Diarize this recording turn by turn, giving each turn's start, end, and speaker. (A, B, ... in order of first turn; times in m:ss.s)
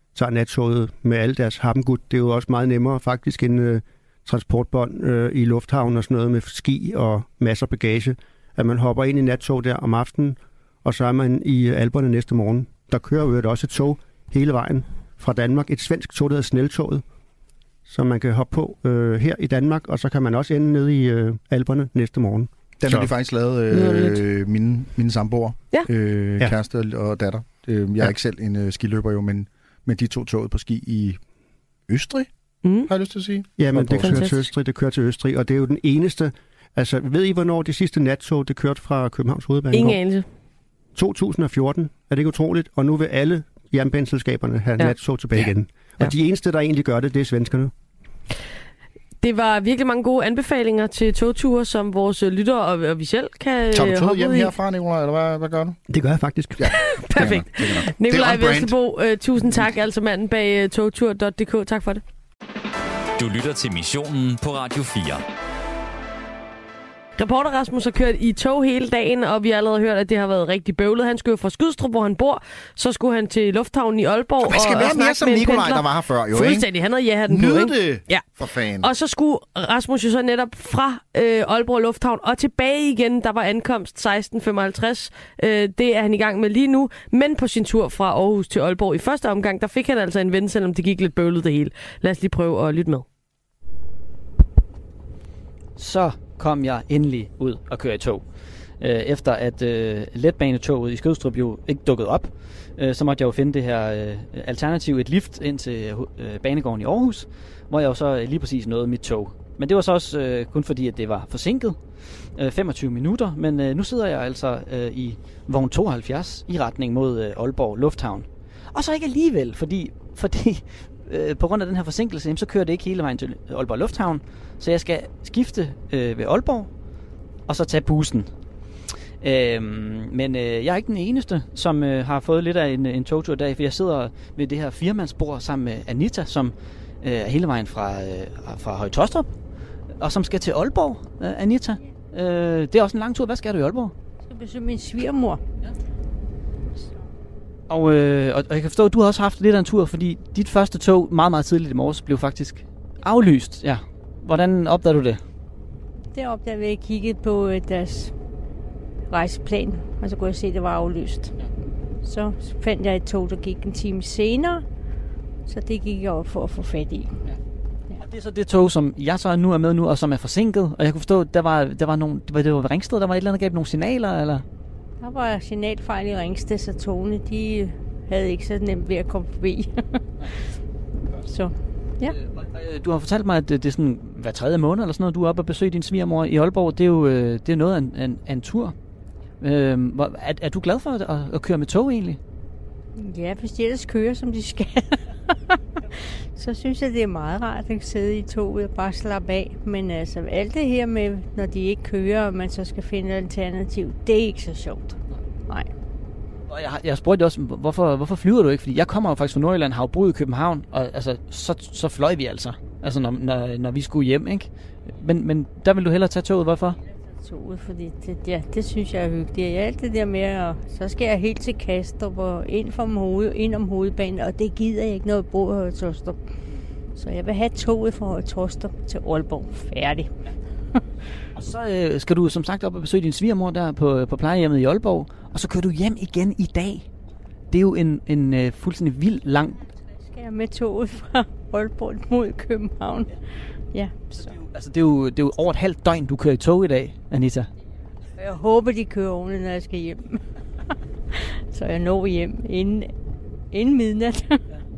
0:00.1-0:17.0 A
0:17.9-0:23.1 A
0:22.8-0:31.2 B
0:23.7-0:24.2 C
0:31.9-0:32.3 B
0:32.6-0:32.9 C
0:32.8-0:34.2 B
0:33.6-0:40.0 A
0:34.0-0:34.5 C
0:39.7-0:40.2 C
0:40.9-0:47.7 A
0:49.2-0:54.5 C
0:53.7-0:55.8 B
0:55.9-0:56.7 A
0:56.6-0:58.7 B
0:56.7-1:02.0 C
1:03.2-1:05.2 D
1:07.2-1:18.2 C
1:14.4-1:16.7 B
1:17.2-1:18.9 B
1:18.8-1:33.0 C
1:35.8-2:06.8 E
2:07.5-2:08.3 E
2:09.2-2:19.3 E
2:20.0-2:23.9 E
2:24.2-2:25.4 F
2:27.7-2:35.2 E
2:36.1-2:38.1 F
2:39.1-2:41.3 F
2:42.0-2:44.6 F
2:45.4-2:47.1 F
2:48.0-2:54.4 E
2:55.0-3:00.0 F
3:01.2-3:02.2 F
3:02.3-3:08.7 E
3:09.4-3:12.2 E
3:13.0-3:15.6 F
3:16.3-3:25.7 F
3:26.5-3:36.8 E
3:37.1-3:46.3 F
3:46.9-3:50.1 F
3:51.4-3:56.9 E
3:57.5-3:59.7 E
4:00.0-4:04.0 F
4:04.1-4:07.5 E
4:08.2-4:10.2 F
4:11.5-4:12.9 F
4:13.5-4:14.4 F